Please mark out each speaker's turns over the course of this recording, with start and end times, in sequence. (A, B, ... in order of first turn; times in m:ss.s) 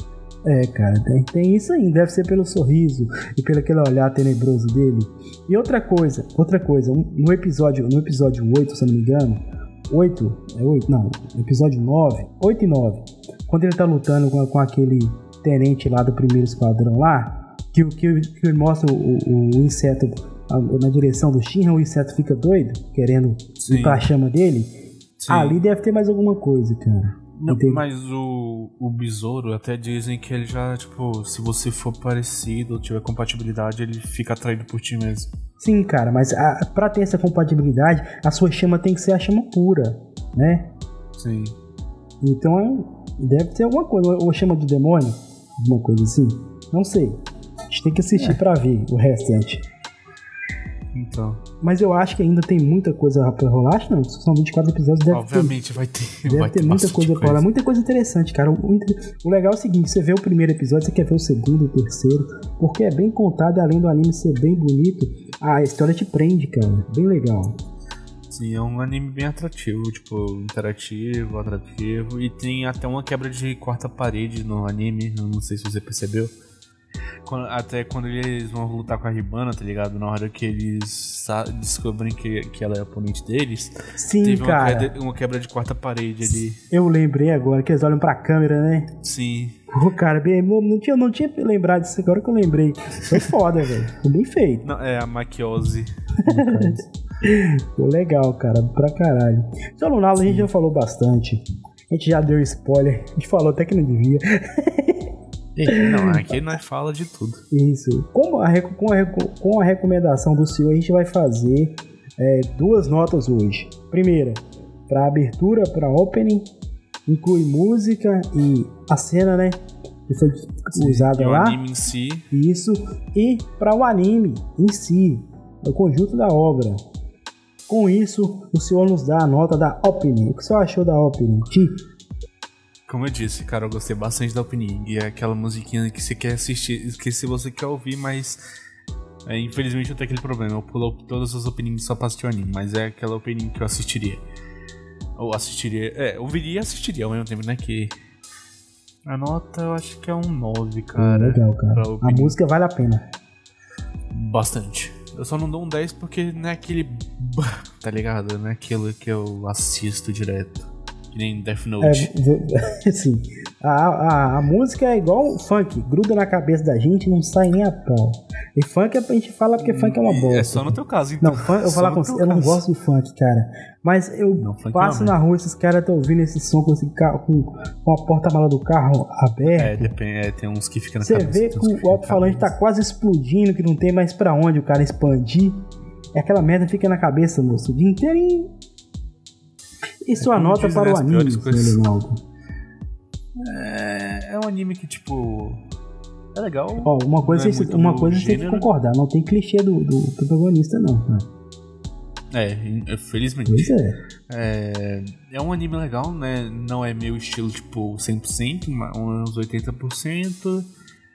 0:00.5-0:24.7 A
0:23.6-0:24.1 B
0:25.2-0:25.6 B
0:25.3-0:27.8 A
0:27.4-0:35.3 B
0:35.6-0:40.7 A
0:41.2-0:41.6 B
0:42.2-0:49.7 A
0:50.9-0:51.4 B
0:51.6-0:55.6 A
0:55.1-0:57.5 B
0:56.3-1:07.6 A
1:08.3-1:16.3 B
1:17.2-1:26.6 B
1:24.0-1:24.9 A
1:26.7-1:28.9 A
1:29.0-1:29.6 B
1:29.7-1:34.7 A
1:34.6-1:36.9 B
1:36.3-1:45.1 A
1:45.6-1:47.4 B
1:45.7-1:46.4 A
1:47.5-1:56.5 A
1:57.1-2:01.6 A
2:00.7-2:02.3 B
2:02.3-2:06.8 A
2:07.7-2:11.8 A
2:12.9-2:18.4 B
2:19.2-2:24.2 B
2:25.2-2:28.0 B
2:29.1-2:32.4 B
2:31.0-2:33.1 A
2:34.1-2:42.1 B
2:41.8-2:59.9 A
2:49.6-2:52.6 B
2:54.4-2:55.2 B
2:59.5-3:02.6 B
3:01.0-3:05.6 A
3:06.2-3:08.5 A
3:10.0-3:12.2 A
3:10.2-3:11.9 B
3:13.4-3:15.6 B
3:16.3-3:18.7 B
3:16.8-3:21.3 A
3:22.3-3:23.7 B
3:23.5-3:24.0 A
3:24.3-3:30.7 B